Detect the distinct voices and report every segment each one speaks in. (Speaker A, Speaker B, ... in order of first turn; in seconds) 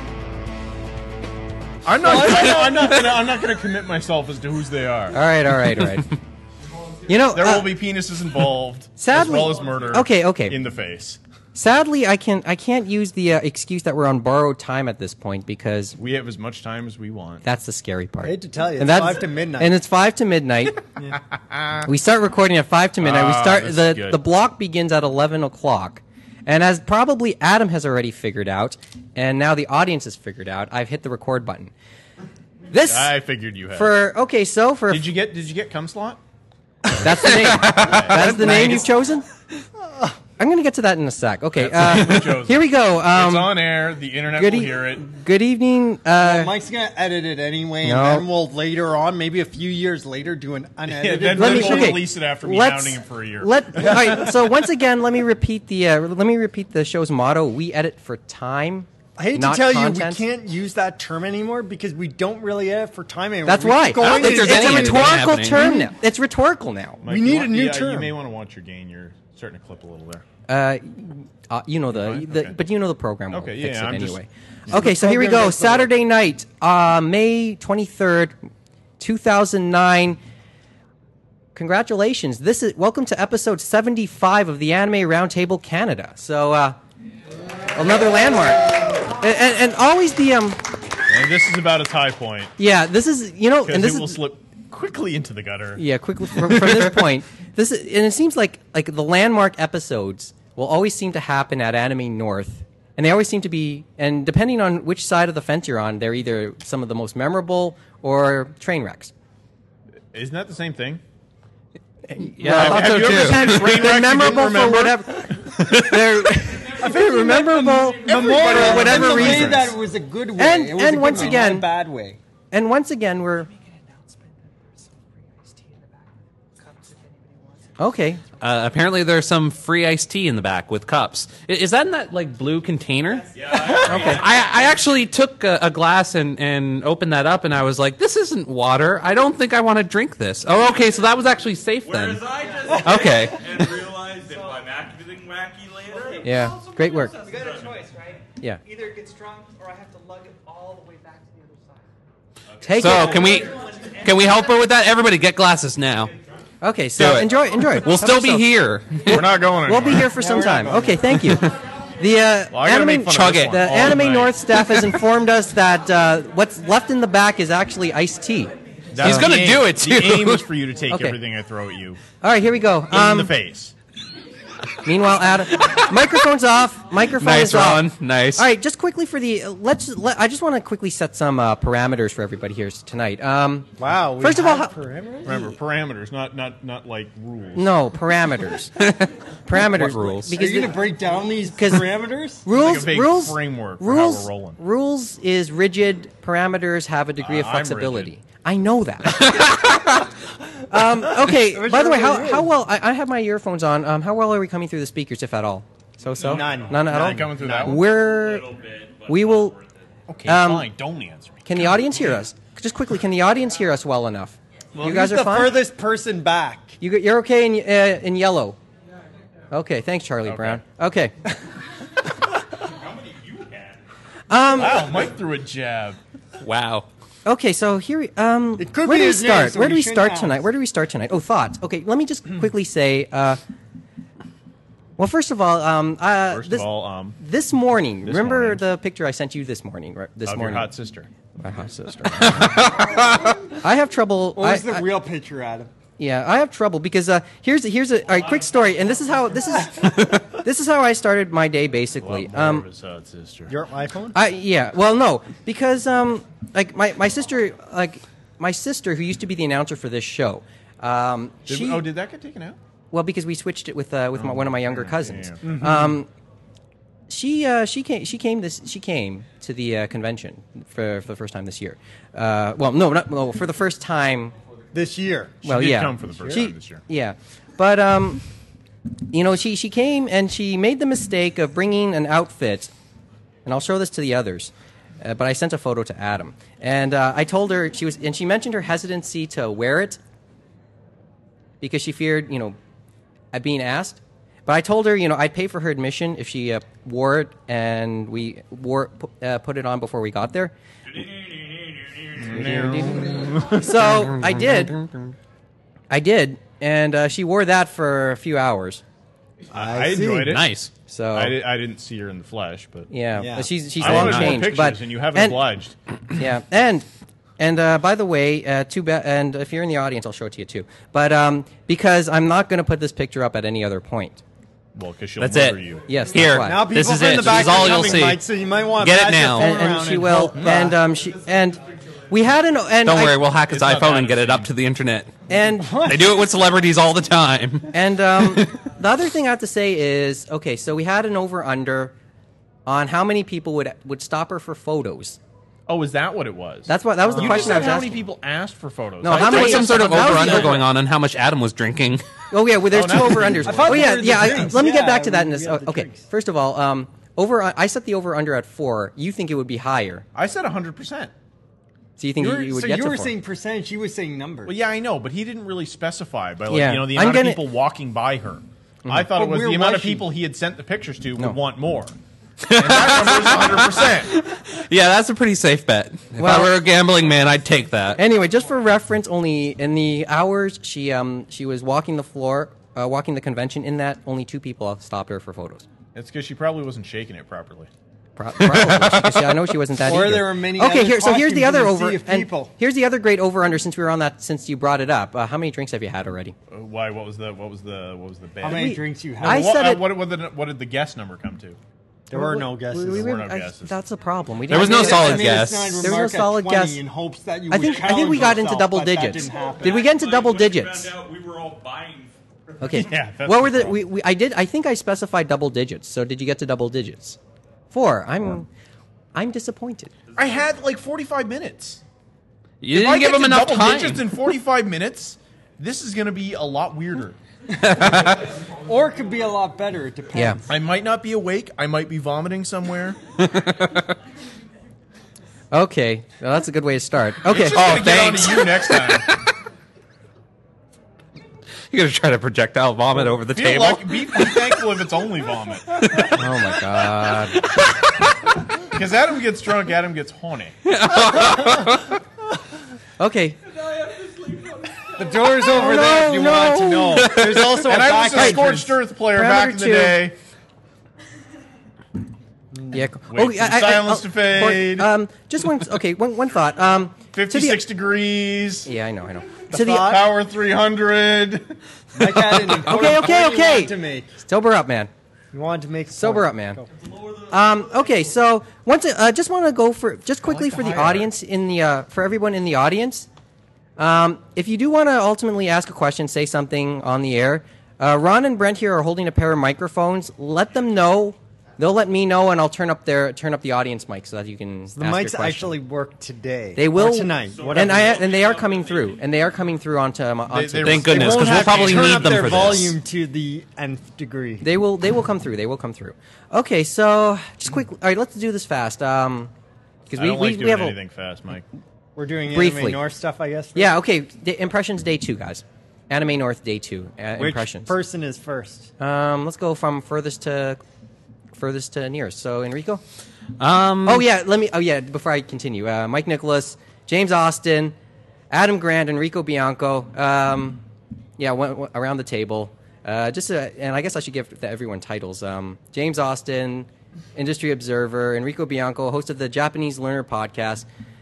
Speaker A: 1.9-5.2, 7.2-11.2, 16.0-17.4, 21.5-21.9, 23.0-24.2, 32.8-34.1, 34.9-36.2, 37.7-38.9, 41.5-45.0, 50.9-54.3, 67.0-70.2, 71.9-72.6, 73.3-74.2, 91.1-92.5, 93.6-95.8, 110.1-111.0, 112.4-115.3, 118.0-119.8, 159.1-160.8, 162.5-164.4, 168.9-172.0, 172.9-173.7, 185.2-187.7, 192.5-194.6, 197.2-198.1, 206.2-207.9, 210.1-212.2, 214.8-215.2, 220.2-220.6, 224.5-226.0, 236.3-237.2, 238.0-238.6, 240.2-241.1, 242.0-242.7, 252.0-253.5, 261.5-262.6, 264.2-265.6, 275.4-276.8, 302.2-304.1, 309.5-310.5, 311.1-312.9, 313.8-315.8, 324.8-325.9, 330.4-330.6, 333.5-334.5, 345.7-350.7, 352.7-354.5, 360.1-361.1, 364.5-372.0, 372.5-374.1, 385.9-387.7, 396.5-401.6, 402.9-403.8, 412.7-413.8, 420.2-421.8, 422.7-427.2, 430.5-433.0, 437.3-439.1, 443.0-446.1, 448.7-450.6, 457.5-460.2, 463.1-464.9, 467.1-468.7, 469.5-471.6, 480.2-481.1, 500.3-502.7, 509.9-511.5
Speaker B: 2.0-3.0, 18.2-19.8, 39.9-40.1, 46.1-52.0, 53.8-54.3, 59.2-65.8, 67.0-68.1, 74.7-75.9, 116.7-122.2, 160.1-161.1, 183.8-185.6, 190.3-192.4, 201.1-202.5, 206.2-207.7, 214.8-216.8, 228.6-230.5, 244.3-245.7, 253.5-254.2, 265.4-266.0, 274.7-275.4, 309.5-310.4, 313.2-313.5, 326.4-330.8, 335.6-336.2, 347.1-347.8, 353.2-356.0, 362.2-364.6, 369.1-370.1, 389.8-392.5, 398.4-399.6, 402.1-403.1, 404.5-409.9, 428.0-430.6, 454.9-458.8, 462.5-462.8, 469.5-470.1, 471.9-474.1, 475.3-476.7, 494.8-498.0, 500.9-504.4, 512.0-513.8, 517.1-518.7
Speaker C: 5.1-6.1, 7.1-7.7, 9.0-10.6, 11.6-16.0, 17.4-20.8, 21.9-31.7, 32.7-33.2, 33.7-35.1, 37.0-39.3, 40.4-43.6, 44.4-46.5, 47.8-48.3, 51.3-60.2, 63.5-67.0, 70.5-78.3, 79.0-80.2, 81.6-86.8, 87.7-90.6, 92.6-94.2, 95.8-109.1, 112.1-119.7, 120.4-121.7, 122.5-123.5, 127.8-128.2, 133.8-134.2, 146.2-147.2, 152.6-153.4, 156.6-169.3, 170.9-171.2, 172.2-173.3, 174.8-184.7, 187.5-188.8, 189.5-190.9, 191.5-199.4, 200.7-208.5, 209.1-209.5, 210.2-210.7, 211.4-215.6, 216.8-218.6, 219.5-221.1, 224.3-224.9, 227.2-233.4, 235.0-240.7, 241.4-242.7, 243.6-244.8, 246.0-252.7, 254.1-261.9, 262.9-266.1, 267.1-274.3, 275.4-278.2, 279.1-282.7, 283.5-290.0, 291.6-292.6, 293.3-300.5, 302.3-304.8, 305.9-308.8, 310.9-311.4, 312.9-315.4, 316.1-316.9, 317.4-324.2, 325.9-326.8, 329.3-333.2, 335.3-335.9, 337.7-341.9, 342.7-345.2, 346.7-348.0, 349.0-350.6, 352.3-360.1, 362.0-363.1, 366.5-367.4, 368.9-369.1, 376.2-376.6, 377.9-385.7, 388.2-396.4, 398.4-399.9, 402.1-406.8, 407.5-410.9, 412.6-417.2, 417.7-418.5, 419.1-419.9, 430.1-430.4, 435.5-437.9, 446.1-447.5, 453.0-453.4, 455.3-457.4, 458.0-460.0, 462.7-467.6, 468.6-469.9, 472.3-474.9, 475.9-476.6, 477.3-483.1, 483.8-495.6, 496.6-500.9, 504.4-509.3, 509.9-510.8, 512.3-512.8, 513.6-517.7, 518.8-520.6, 521.3-522.8, 523.9-527.8, 528.3-530.6, 531.2-540.6
Speaker D: 37.3-38.9, 64.0-65.8, 112.4-113.9, 128.4-133.3, 133.9-142.2, 142.8-143.4, 152.8-156.1, 157.0-159.4, 163.1-163.9, 164.6-164.8, 169.0-170.5, 177.2-178.5, 188.8-190.3, 199.1-200.0, 226.4-226.9, 242.2-243.1, 303.9-305.1, 310.2-310.7, 313.8-314.4, 325.2-328.2, 328.8-329.5, 332.9-335.1, 335.8-338.5, 349.1-352.0, 372.4-378.0, 388.4-389.4, 404.5-405.9, 422.6-424.2, 427.6-428.2, 433.2-433.9, 437.5-439.0, 441.7-444.3, 445.8-446.1, 447.4-447.9, 450.6-452.0, 457.0-457.6, 500.6-502.8, 523.4-524.0
Speaker E: 125.5-125.8, 126.6-127.7, 146.0-151.8, 153.7-154.0
Speaker F: 133.3-134.8, 141.8-146.3, 147.2-147.8, 152.5-153.8, 207.8-209.9, 222.6-223.8, 300.9-302.4, 407.6-408.5, 409.1-412.9, 420.1-420.4, 453.5-455.2, 476.7-478.2, 497.1-499.4